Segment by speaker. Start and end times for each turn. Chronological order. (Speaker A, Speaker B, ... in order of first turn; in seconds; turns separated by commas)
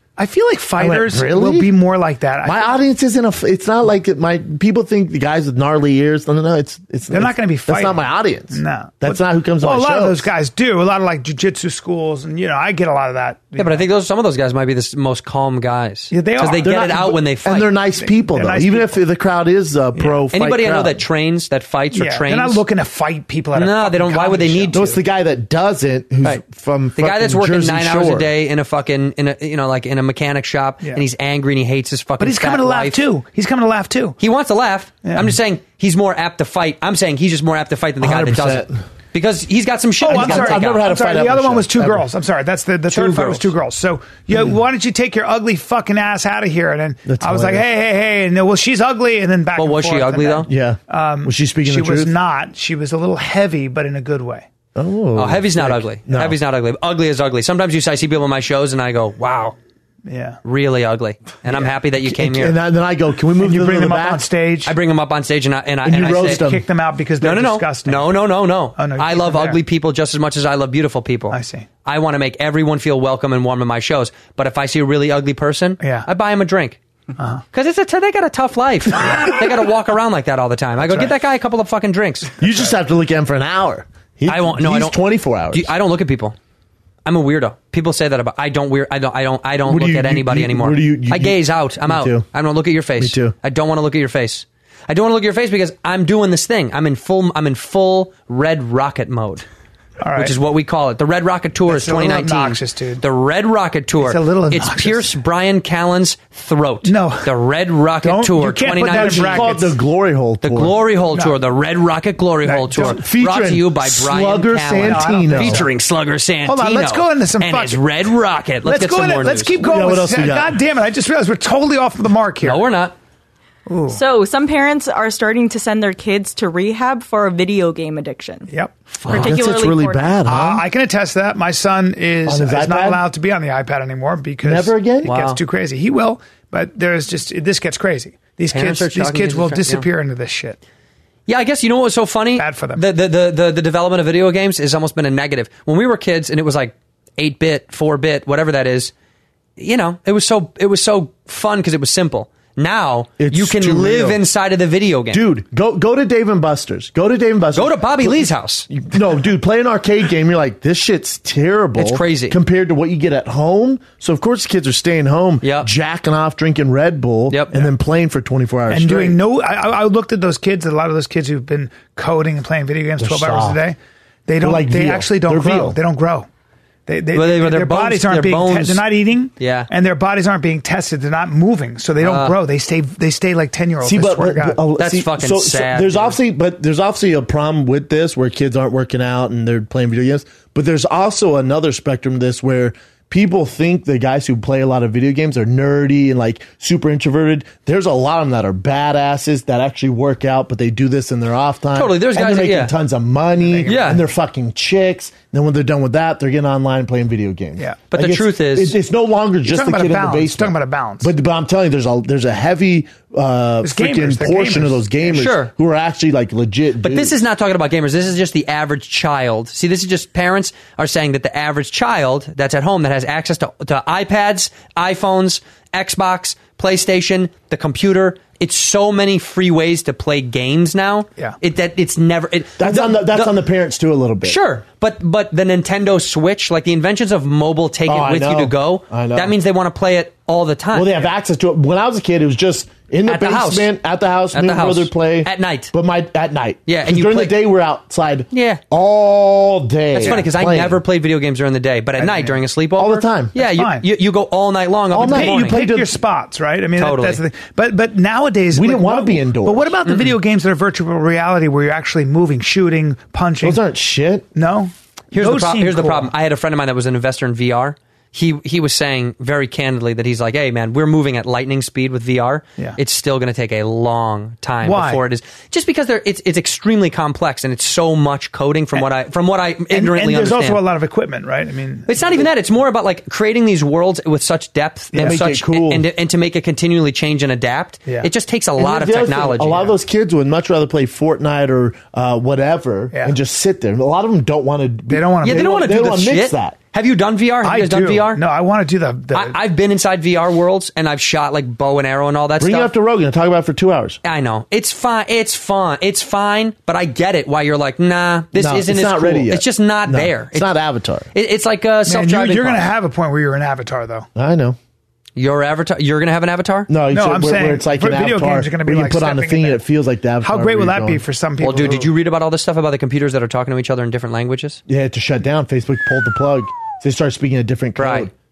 Speaker A: 0.2-2.8, Speaker B: 0.8-1.7, Speaker B: 2.4-10.3, Speaker A: 7.1-13.9, Speaker C: 13.6-17.7, Speaker A: 16.1-16.8, Speaker B: 16.6-21.0, Speaker A: 18.0-19.0, Speaker A: 19.9-20.2, Speaker C: 20.3-22.6, Speaker A: 21.9-25.0, Speaker C: 23.5-24.8, Speaker B: 24.7-28.3, Speaker C: 26.9-33.0, Speaker A: 32.2-34.2, Speaker C: 34.2-40.8, Speaker A: 35.0-35.4, Speaker B: 38.0-38.8, Speaker A: 40.0-54.5, Speaker B: 40.1-42.0, Speaker C: 42.9-43.5, Speaker B: 47.0-47.6, Speaker C: 49.5-50.5, Speaker B: 50.5-52.1, Speaker B: 54.8-56.4, Speaker C: 55.1-59.5, Speaker A: 60.0-60.4, Speaker C: 60.4-62.6, Speaker B: 62.0-64.2, Speaker A: 63.4-64.7, Speaker C: 64.7-66.4, Speaker B: 65.8-66.6, Speaker A: 66.0-68.2, Speaker C: 67.2-76.8, Speaker A: 68.8-69.6, Speaker A: 71.3-71.7, Speaker A: 75.8-76.1, Speaker A: 77.2-77.4, Speaker C: 77.5-82.3, Speaker A: 79.0-79.3, Speaker B: 82.4-85.7, Speaker C: 84.3-86.4, Speaker C: 87.0-99.5, Speaker B: 89.7-92.3, Speaker B: 93.0-93.3, Speaker A: 100.0-100.3, Speaker C: 100.2-109.5, Speaker A: 101.7-103.0, Speaker A: 104.0-105.1, Speaker A: 106.8-107.3, Speaker A: 108.0-109.7, Speaker B: 108.9-110.8, Speaker C: 110.4-119.5, Speaker A: 111.1-111.4, Speaker A: 112.4-113.0, Speaker B: 112.8-115.6, Speaker A: 114.8-115.7, Speaker A: 116.4-118.1, Speaker A: 118.6-122.6, Speaker B: 119.6-120.6, Speaker C: 122.4-122.9, Speaker A: 123.7-124.0, Speaker D: 123.9-128.5, Speaker A: 128.5-128.8, Speaker B: 129.1-130.6, Speaker D: 129.1-130.2, Speaker A: 130.2-140.6, Speaker B: 132.2-133.0, Speaker B: 134.4-135.1, Speaker C: 135.0-135.4, Speaker C: 138.5-139.8, Speaker C: 141.3-148.9, Speaker A: 142.3-142.8, Speaker C: 149.6-155.2, Speaker B: 153.2-154.2, Speaker B: 155.1-169.2, Speaker C: 157.5-158.7, Speaker C: 161.8-162.4, Speaker C: 165.4-165.7, Speaker C: 167.3-167.7, Speaker A: 168.7-176.3, Speaker B: 173.0-173.6, Speaker B: 174.4-175.8, Speaker A: 176.9-184.6, Speaker C: 177.1-178.8, Speaker C: 179.4-179.7, Speaker C: 182.0-182.3, Speaker B: 183.8-217.2, Speaker C: 184.8-186.2, Speaker C: 201.7-202.7, Speaker A: 203.4-204.0, Speaker C: 203.7-204.0, Speaker C: 207.9-208.8, Speaker A: 209.4-211.1, Speaker A: 213.6-215.1, Speaker C: 215.1-215.5, Speaker C: 216.8-233.4, Speaker B: 232.6-234.4, Speaker C: 234.2-241.0, Speaker B: 237.8-239.3, Speaker B: 240.7-250.8, Speaker C: 243.1-243.7, Speaker C: 244.3-245.7, Speaker C: 246.7-247.4, Speaker C: 248.3-248.6, Speaker C: 249.9-255.6, Speaker A: 250.0-250.3, Speaker A: 252.0-252.4, Speaker B: 252.8-253.3, Speaker A: 253.4-253.9, Speaker B: 254.9-255.9, Speaker A: 255.0-263.6, Speaker C: 256.8-257.2, Speaker B: 258.5-259.8, Speaker C: 259.8-260.1, Speaker B: 263.4-264.2, Speaker A: 264.3-266.1, Speaker C: 265.1-280.6, Speaker A: 274.6-275.0, Speaker A: 279.7-282.3, Speaker C: 281.9-289.7, Speaker A: 284.9-285.2, Speaker B: 285.0-285.8, Speaker B: 288.6-296.6, Speaker A: 294.9-295.7, Speaker C: 295.2-298.2, Speaker A: 297.4-299.4, Speaker C: 299.1-302.7, Speaker B: 302.4-304.0, Speaker C: 304.0-310.5, Speaker B: 308.3-311.1, Speaker C: 311.1-312.7, Speaker A: 311.9-314.1, Speaker B: 314.1-314.6, Speaker C: 315.1-316.7, Speaker B: 316.7-321.0, Speaker A: 316.9-319.6, Speaker A: 320.2-321.9, Speaker C: 321.4-324.6, Speaker B: 324.7-328.1, Speaker C: 327.8-328.1